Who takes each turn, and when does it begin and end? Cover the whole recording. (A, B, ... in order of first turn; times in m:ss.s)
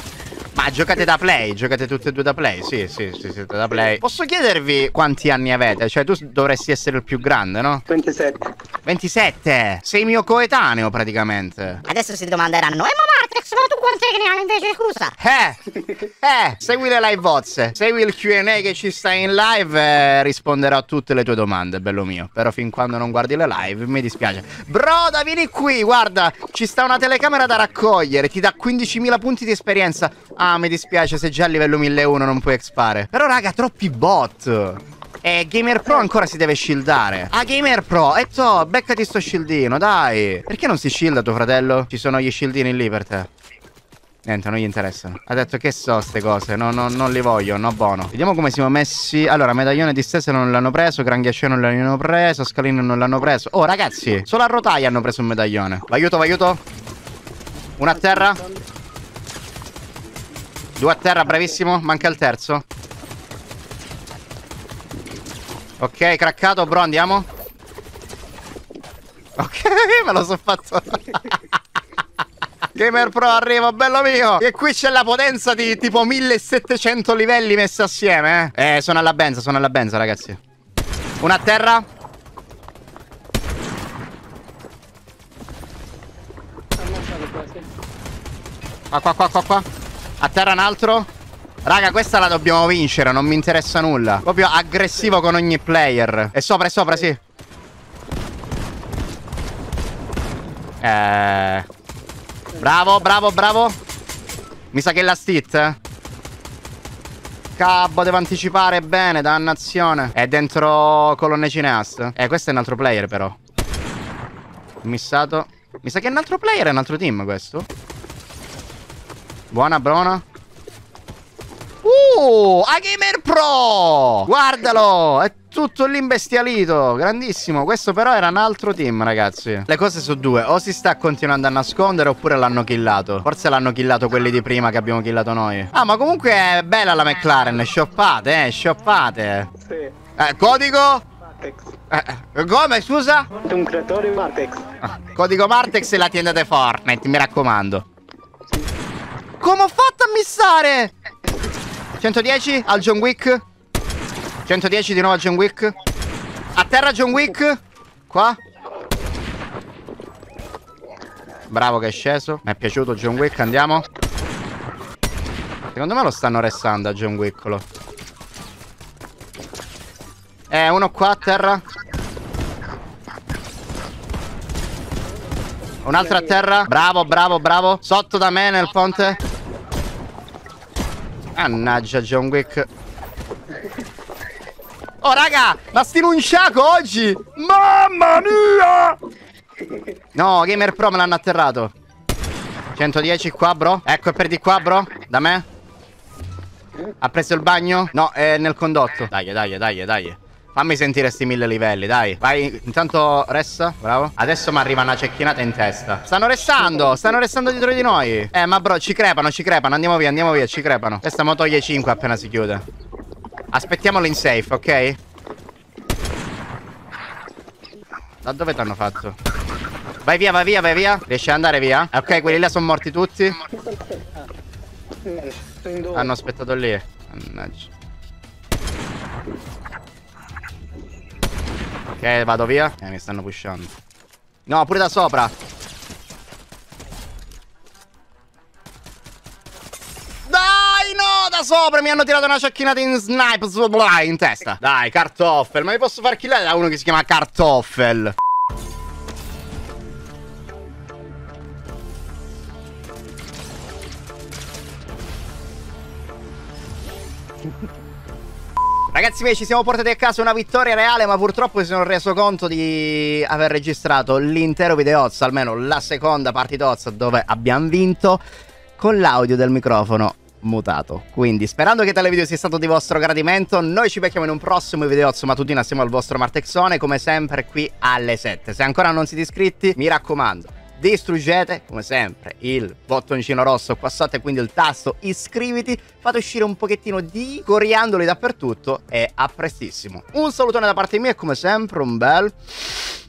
0:00.5-0:07.8 A
0:07.9-0:08.5 B
0:08.8-0:11.8 A
0:11.9-0:15.2 C
0:15.2-0:43.3 A
0:44.2-0:56.6 A
0:57.8-0:58.4 A
0:58.0-0:58.3 B
1:00.8-1:02.6 A
1:05.8-1:07.3 A
1:09.4-1:11.6 A
1:12.7-1:20.4 A
1:21.2-1:21.8 A
1:26.8-1:27.7 B
1:28.9-1:29.6 A
1:30.2-1:31.1 A
1:31.6-1:37.2 A
1:40.8-1:41.7 A
1:42.6-1:43.8 A
1:44.7-1:45.8 A
1:47.6-1:53.4 A
1:54.8-1:57.7 A
1:59.5-2:00.2 A
2:01.8-2:19.5 A
2:19.6-2:19.9 B
2:20.2-2:21.0 A
2:21.3-2:21.7 B
2:21.9-2:23.3 A
2:23.5-2:24.6 B
2:24.8-2:27.8 A
2:29.4-2:30.9 A
2:32.0-2:33.4 A
2:34.4-2:35.7 A
2:36.6-2:38.4 A
2:41.5-2:43.8 A
2:45.7-2:47.6 A
2:50.5-2:51.6 A
2:55.8-2:59.2 A
3:01.4-3:02.7 A
3:05.0-3:09.0 A
3:10.1-3:11.7 A
3:12.7-3:15.4 A
3:17.0-3:32.6 A
3:33.5-3:35.0 A
3:38.2-3:39.2 A
3:40.0-3:43.4 A
3:43.7-3:44.1 B
3:45.0-3:46.1 B
3:45.9-3:47.7 A
3:52.0-3:53.7 A
3:54.5-3:55.3 A
4:00.3-4:08.1 A
4:18.9-4:28.2 A
4:28.8-4:52.8 A